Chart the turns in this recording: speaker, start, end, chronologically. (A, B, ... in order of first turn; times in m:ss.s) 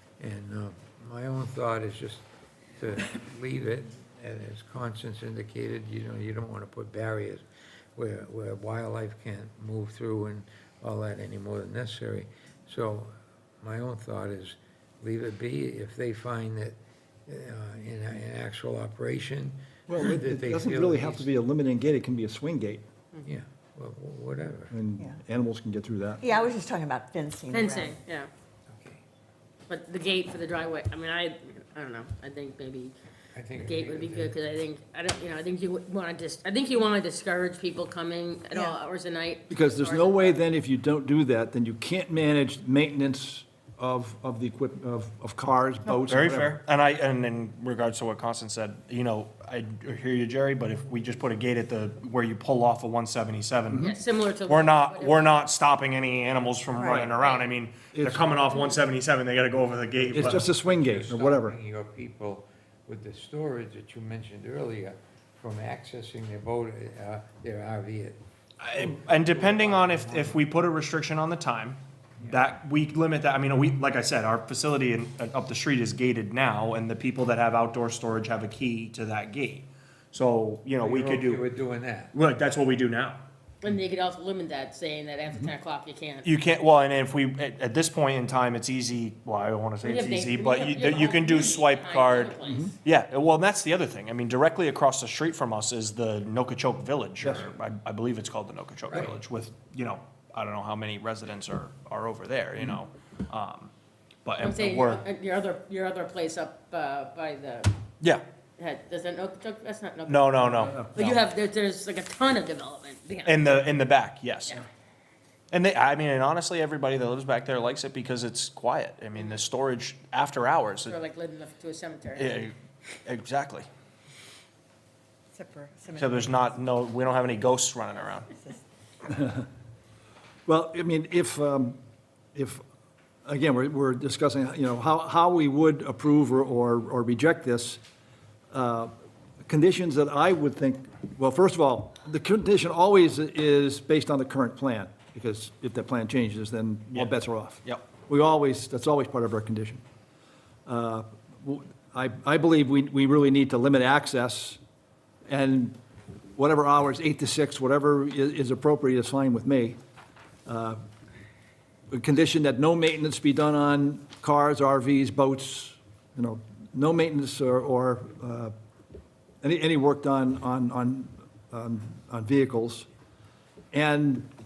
0:00.2-0:02.2 A
0:02.8-0:07.4 A
0:08.0-0:21.3 A
0:19.9-0:22.8 B
0:23.2-0:24.7 A
0:24.7-0:26.2 B
0:26.2-0:28.0 C
0:27.5-0:28.3 D
0:28.7-0:29.0 A
0:29.7-0:32.9 D
0:33.3-0:34.3 A
0:33.6-0:40.4 D
0:38.5-0:38.8 C
0:39.5-0:46.6 B
0:46.1-0:54.0 E
0:53.8-0:55.3 D
0:54.5-1:00.4 E
0:56.8-0:57.1 C
0:57.9-0:58.5 B
0:59.9-1:08.2 A
1:00.1-1:01.6 B
1:08.6-1:21.4 E
1:08.7-1:10.4 A
1:20.8-1:22.1 A
1:22.1-1:23.2 E
1:23.6-1:26.3 D
1:26.2-1:43.7 E
1:29.8-1:32.7 D
1:32.5-1:32.7 B
1:37.2-1:37.5 B
1:44.2-1:45.0 E
1:44.4-1:47.7 D
1:48.6-1:53.7 D
1:50.1-1:51.2 E
1:53.3-1:54.6 E
1:55.5-2:01.0 E
2:00.8-2:02.4 D
2:02.2-2:03.7 E
2:05.3-2:06.3 C
2:06.0-2:08.3 E
2:09.1-2:09.4 B
2:10.5-2:11.8 B
2:12.3-2:12.6 B
2:13.2-2:17.8 B
2:18.5-2:18.9 B
2:19.4-2:29.8 B
2:26.9-2:27.8 E
2:30.7-2:34.6 B
2:35.3-2:35.8 B
2:36.4-2:39.8 B
2:40.4-2:40.8 B
2:41.9-2:48.5 B
2:49.4-2:52.9 B
2:53.7-2:54.3 B